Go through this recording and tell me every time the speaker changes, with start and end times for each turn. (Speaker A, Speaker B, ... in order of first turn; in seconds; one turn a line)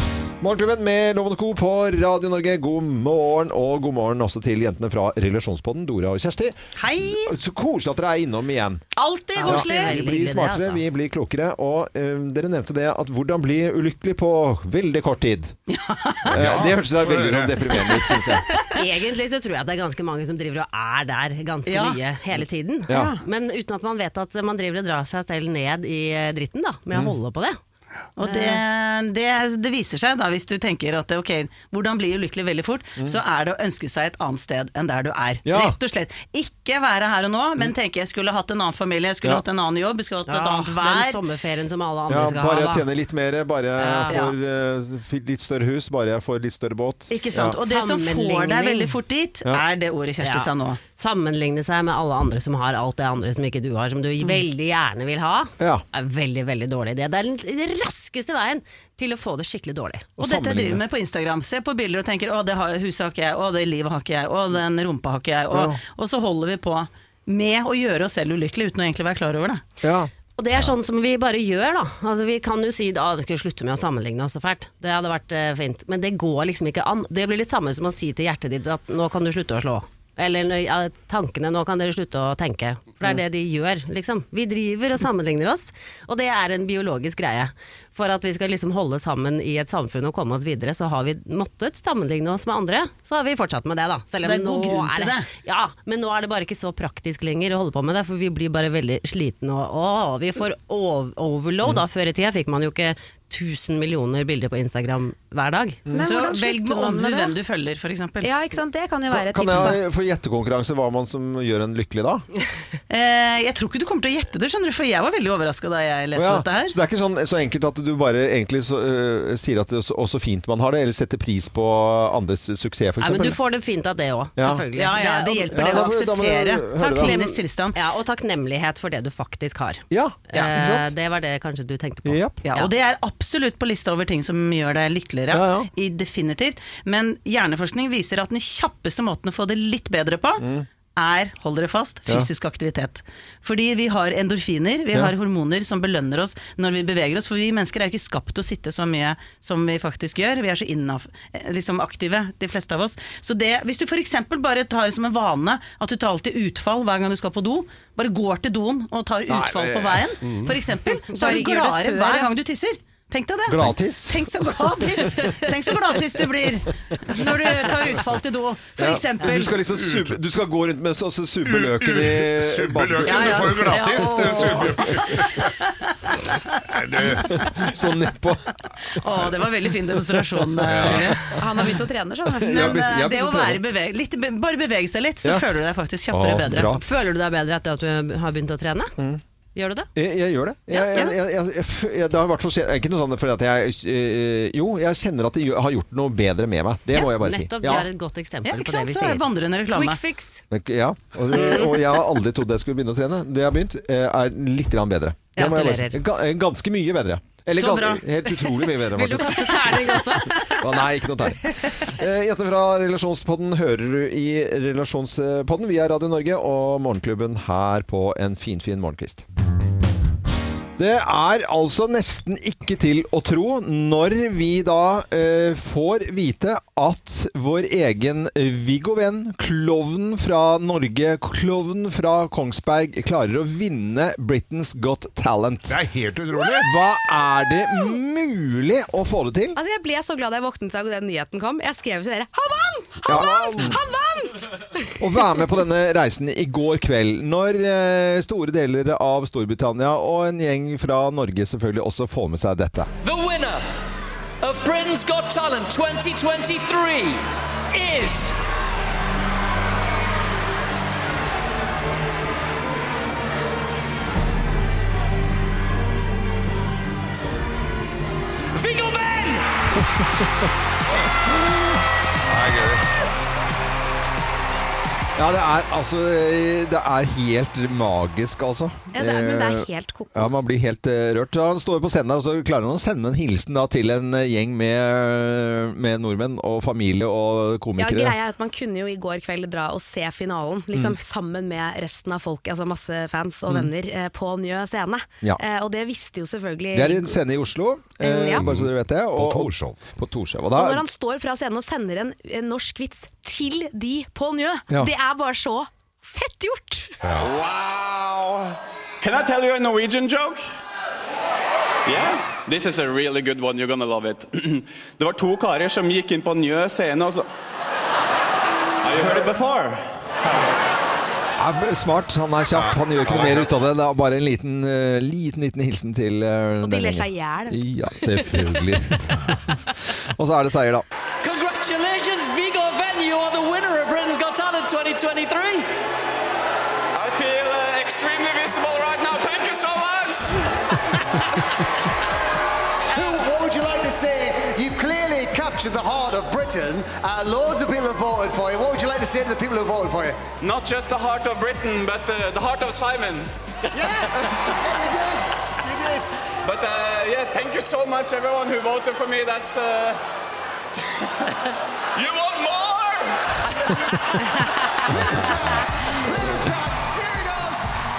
Speaker A: 0.4-8.8
Speaker B: 6.8-7.3
Speaker B: 9.0-9.9
Speaker C: 9.4-10.8
Speaker A: 9.4-15.6
Speaker B: 15.7-16.4
Speaker D: 16.3-17.7
Speaker A: 16.3-18.5
Speaker C: 18.8-27.6
Speaker B: 21.6-22.0
Speaker A: 22.9-23.1
Speaker B: 28.2-41.2
Speaker A: 35.5-35.8
Speaker C: 40.2-42.9
Speaker A: 42.1-47.6
Speaker C: 43.8-44.2
Speaker B: 44.1-44.4
Speaker B: 47.1-50.8
Speaker C: 47.9-48.8
Speaker C: 50.2-60.1
Speaker A: 55.6-55.8
Speaker A: 60.2-60.8
Speaker B: 60.2-69.6
Speaker A: 65.5-65.8
Speaker A: 69.8-70.1
Speaker C: 70.4-105.8
Speaker B: 94.2-95.3
Speaker E: 105.9-107.3
Speaker B: 106.0-108.3
Speaker E: 108.2-109.8
Speaker A: 109.1-112.2
Speaker B: 112.9-116.8
Speaker A: 116.2-123.4
Speaker C: 123.0-125.9
Speaker A: 124.4-124.6
Speaker B: 124.7-127.8
Speaker A: 125.5-127.2
Speaker C: 126.9-132.7
Speaker A: 129.9-130.9
Speaker A: 132.1-132.4
Speaker B: 132.4-140.4
Speaker A: 135.3-135.7
Speaker A: 140.4-140.7
Speaker B: 141.0-169.6
Speaker A: 159.3-160.1
Speaker D: 160.2-160.6
Speaker E: 161.2-162.3
Speaker A: 163.5-164.6
Speaker A: 168.8-175.2
Speaker D: 169.7-170.2
Speaker D: 171.4-175.5
Speaker B: 173.0-176.6
Speaker D: 176.7-177.4
Speaker A: 177.3-178.6
Speaker B: 178.9-181.4
Speaker A: 180.2-181.3
Speaker D: 180.6-181.1
Speaker E: 181.4-182.6
Speaker A: 182.3-183.6
Speaker B: 182.5-186.7
Speaker A: 186.1-186.8
Speaker C: 186.7-188.9
Speaker C: 189.6-189.9
Speaker A: 189.9-197.9
Speaker C: 196.9-200.4
Speaker B: 198.4-200.0
Speaker A: 200.5-209.8
Speaker B: 205.4-205.9
Speaker B: 207.5-208.1
Speaker C: 208.9-210.3
Speaker E: 209.4-210.6
Speaker A: 210.6-219.2
Speaker A: 220.8-235.8
Speaker D: 235.7-236.7
Speaker A: 236.6-239.6
Speaker E: 239.6-245.5
Speaker A: 243.1-243.8
Speaker A: 245.0-252.9
Speaker F: 253.0-253.7
Speaker F: 254.4-258.4
Speaker F: 268.5-269.5
Speaker A: 270.0-270.2
Speaker D: 272.2-272.9
Speaker A: 275.2-288.2
Speaker E: 278.9-280.3
Speaker E: 287.8-297.2
Speaker A: 296.7-300.8
Speaker E: 298.0-298.5
Speaker D: 298.4-299.8
Speaker E: 300.6-307.0
Speaker D: 307.0-307.4
Speaker G: 307.2-310.5
Speaker G: 311.9-317.3
Speaker G: 318.8-320.0
Speaker A: 321.4-330.9
Speaker D: 322.5-323.5
Speaker E: 326.6-328.6
Speaker F: 331.2-335.7
Speaker G: 336.9-340.5
Speaker H: 342.9-350.2
Speaker G: 350.4-353.3
Speaker H: 354.6-356.1
Speaker G: 356.4-360.0
Speaker G: 360.8-361.1
Speaker G: 361.9-364.2
Speaker H: 366.1-367.7